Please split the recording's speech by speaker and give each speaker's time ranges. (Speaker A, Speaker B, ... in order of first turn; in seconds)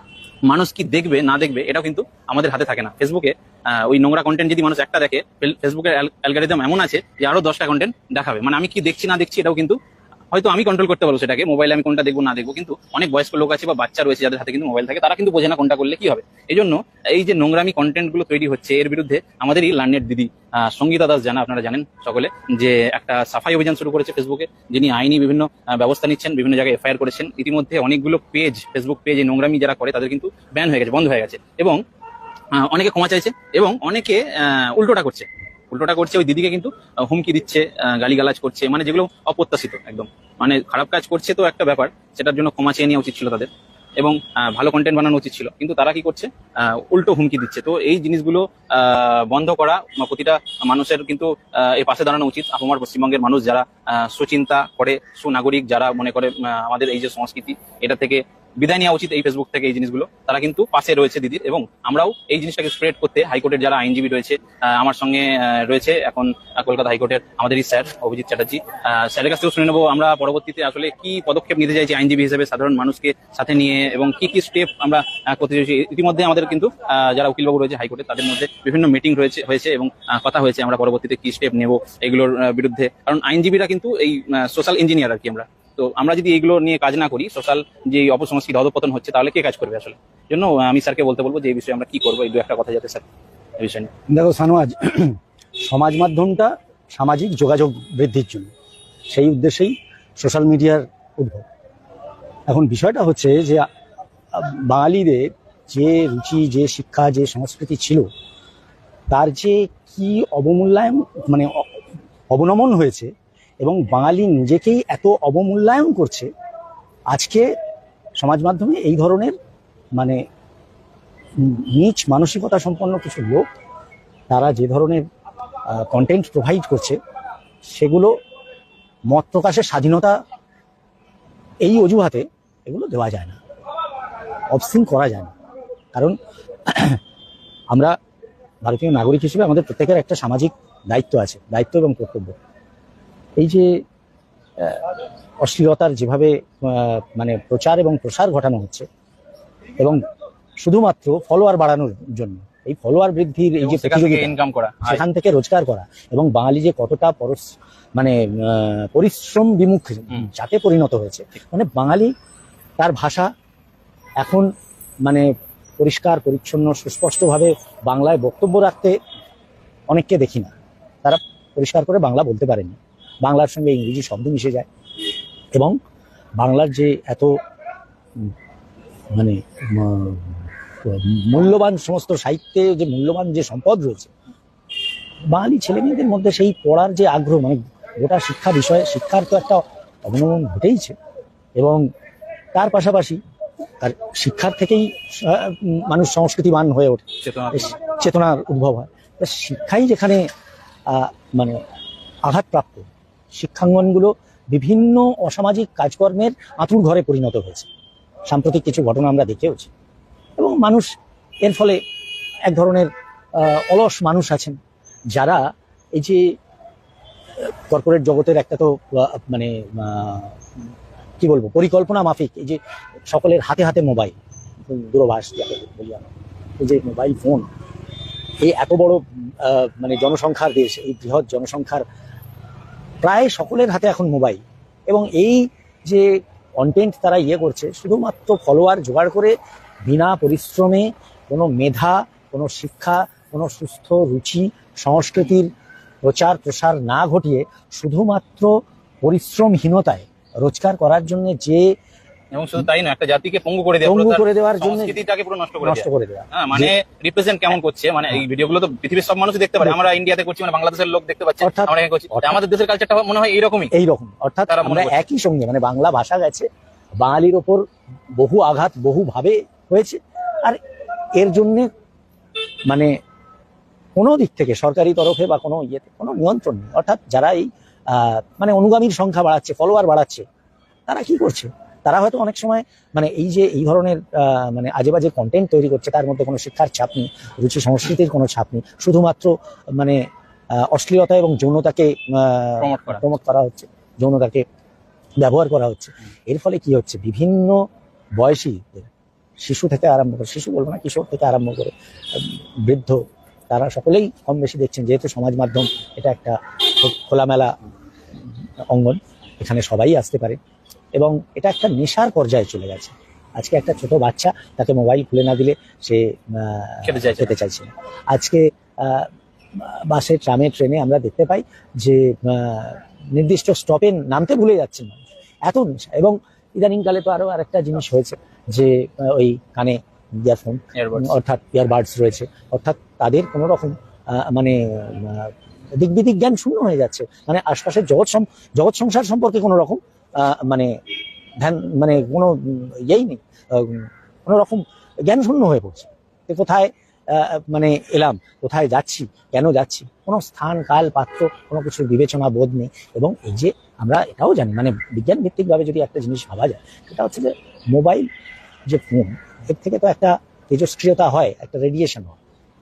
Speaker A: 0.5-9.8, 10.3-31.8, 32.5-93.1, 93.6-93.9, 153.6-155.0, 197.2-197.8, 252.3-263.7, 264.5-265.0, 292.6-293.1, 316.8-317.4, 330.8-331.2
Speaker B: 94.1-98.5, 99.1-101.5, 102.5-103.7, 104.3-108.1, 109.1-111.7, 112.3-113.1, 113.6-116.3, 117.1-117.5, 118.2-119.3, 121.4-123.5, 124.3-125.0, 125.7-127.0, 127.7-128.1, 129.1-130.2, 131.6-133.4, 134.5-135.3, 136.7-137.0, 138.6-142.4, 143.4-143.8, 144.6-144.8, 145.4-148.8, 150.6-154.3, 154.8-162.1, 162.8-163.3, 164.2-164.5, 165.8-169.0, 169.9-170.5, 171.0-174.7, 176.4-177.4, 179.2-184.1, 185.3-190.9, 191.6-191.8, 192.5-193.2, 193.8-200.2, 200.9-201.6, 202.3-207.7, 208.3-209.7, 210.4-210.9, 211.4-211.8, 212.5-214.6, 215.1-215.4, 215.9-216.3, 217.7-220.4, 221.2-224.2, 224.7-227.5, 228.4-231.8, 233.0-236.1, 236.6-239.3, 239.9-245.5, 246.0-248.5, 249.0-251.7, 253.8-255.0, 255.6-256.7, 259.6-259.9, 261.4-262.4, 263.7-266.5, 267.0-267.6, 268.2-270.6, 271.1-271.7, 272.7-272.9, 274.0-280.2, 280.9-290.0, 290.6-294.4, 295.2-297.6, 298.2-298.9, 299.4-303.0, 303.5-307.6, 308.7-310.4, 310.9-340.7, 341.4-358.1, 358.7-362.2